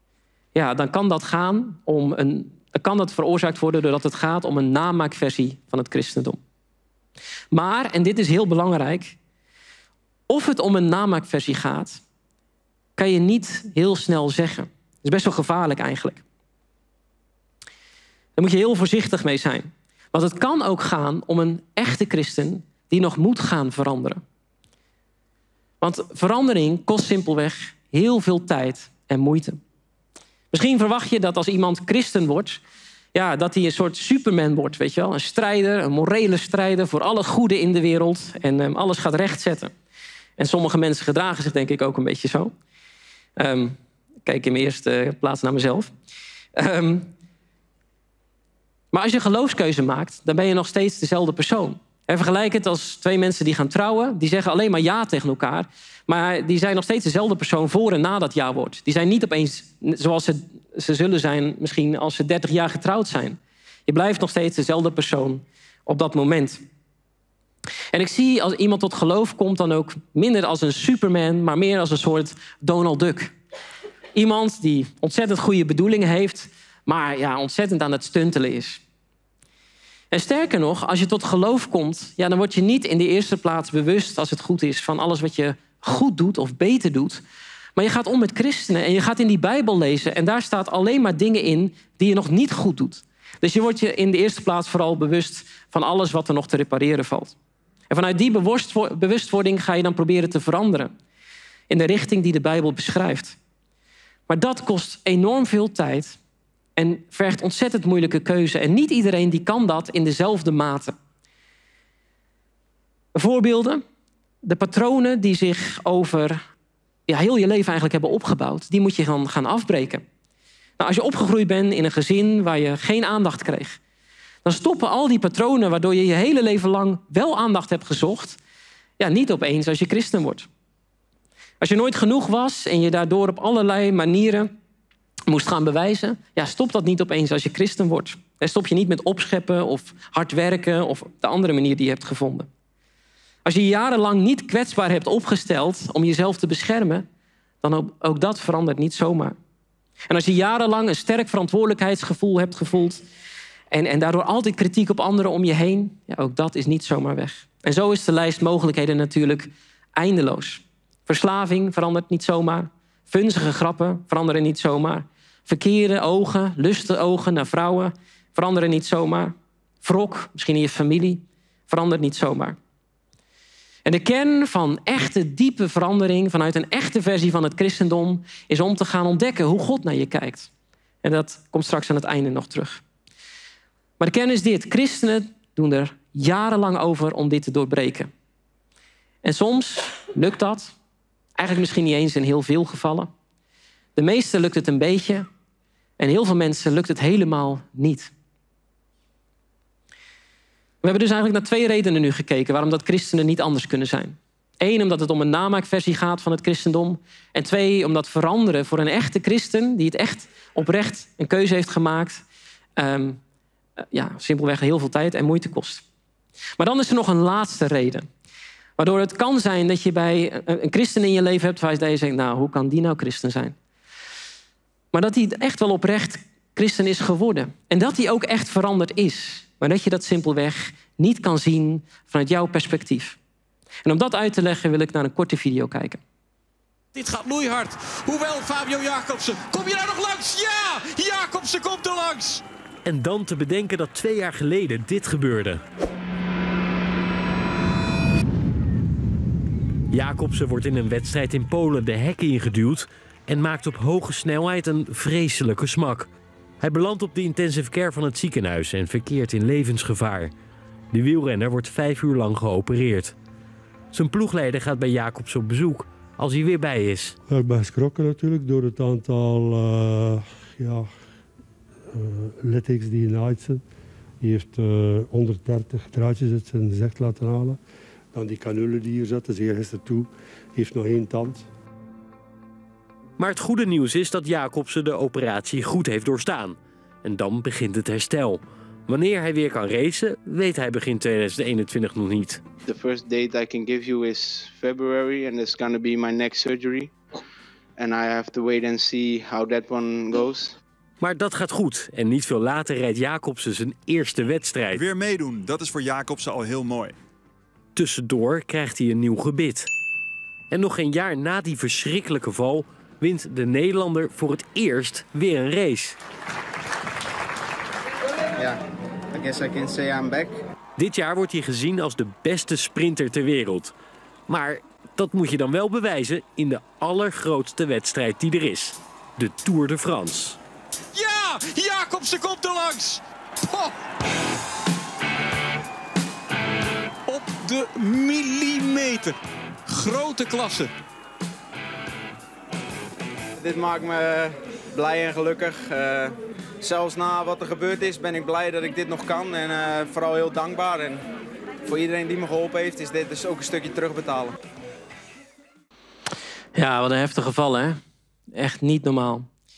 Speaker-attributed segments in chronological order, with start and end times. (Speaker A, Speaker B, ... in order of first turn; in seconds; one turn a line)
Speaker A: 0.6-6.4
Speaker A: 7.5-9.2
Speaker A: 10.3-12.0
Speaker A: 13.0-16.2
Speaker A: 18.4-24.2
Speaker A: 25.8-29.6
Speaker A: 30.5-32.6
Speaker A: 33.1-39.7
Speaker A: 40.4-42.5
Speaker A: 43.4-45.9
Speaker A: 46.5-47.1
Speaker A: 48.9-66.6
Speaker A: 67.9-73.3
Speaker A: 74.2-78.8
Speaker A: 80.1-87.2
Speaker A: 87.8-97.3
Speaker A: 97.9-100.9
Speaker A: 101.7-103.4
Speaker A: 104.3-106.2
Speaker A: 106.8-111.0
Speaker A: 113.2-113.8
Speaker A: 114.4-116.4
Speaker A: 117.1-120.0
Speaker A: 120.8-123.8
Speaker A: 124.5-128.4
Speaker A: 129.0-130.5
Speaker A: 131.6-134.5
Speaker A: 135.3-142.5
Speaker A: 143.4-147.1
Speaker A: 147.6-149.4
Speaker A: 150.1-153.0
Speaker A: 153.7-172.6
Speaker A: 173.8-180.5
Speaker A: 181.0-182.8
Speaker A: 184.0-188.1
Speaker A: 189.2-190.7
Speaker A: 191.4-193.1
Speaker A: 194.0-195.3
Speaker A: 196.0-198.1
Speaker A: 200.8-212.2
Speaker A: 212.8-213.2
Speaker A: 213.9-215.8
Speaker A: 216.6-218.1
Speaker A: 218.8-223.6
Speaker A: 224.9-233.2
Speaker A: 233.8-236.0
Speaker B: 236.9-242.4
Speaker C: 242.8-245.6
Speaker C: 249.9-256.1
Speaker C: 256.6-260.3
Speaker C: 260.9-263.1
Speaker C: 263.9-267.2
Speaker D: 267.3-270.9
Speaker D: 271.9-273.6
Speaker D: 274.2-277.6
Speaker D: 278.1-281.5
Speaker C: 283.2-292.4
Speaker E: 292.6-296.9
Speaker E: 297.8-300.6
Speaker C: 301.0-304.9
Speaker F: 304.7-307.0
Speaker C: 307.8-309.7
Speaker C: 310.5-316.0
Speaker E: 318.4-320.4
Speaker C: 320.8-323.7
Speaker C: 324.3-330.4
Speaker B: 330.9-333.8
Speaker B: 337.1-339.2
Speaker B: 339.7-340.7
Speaker E: 343.4-351.1
Speaker E: 351.6-354.4
Speaker A: 356.6-357.8
Speaker A: 358.3-359.3